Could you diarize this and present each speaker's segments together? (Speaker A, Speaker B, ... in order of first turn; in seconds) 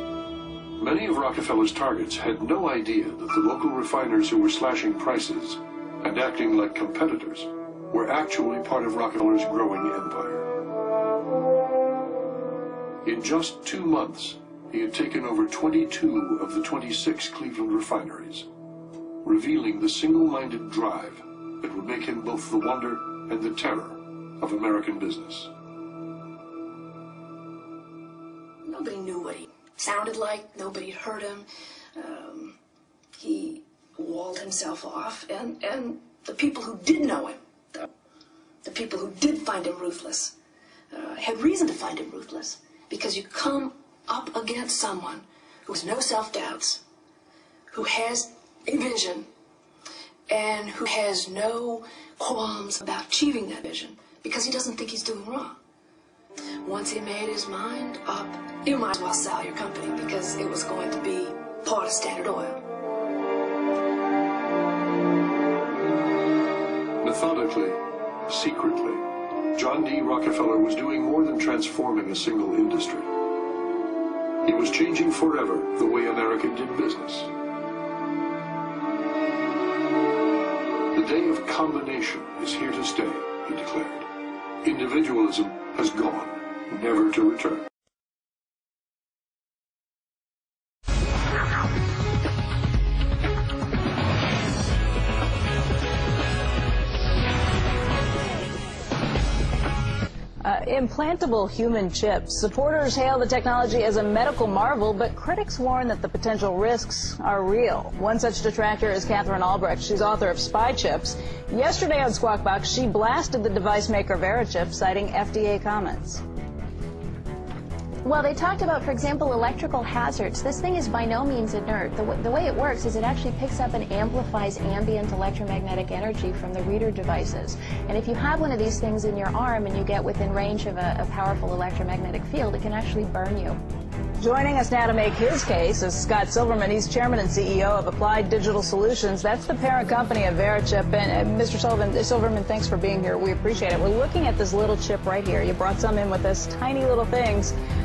Speaker A: 0.8-10.5, 13.0-18.5, 19.2-25.5, 67.0-69.0, 69.5-73.1, 74.4-77.3, 80.9-84.0, 84.6-87.6
Speaker B: 28.6-32.6, 33.1-37.9, 38.6-40.3, 40.9-46.8, 47.7-49.3, 50.3-55.6, 56.6-62.6
Speaker C: 100.4-116.2, 134.2-147.5
Speaker D: 118.0-133.6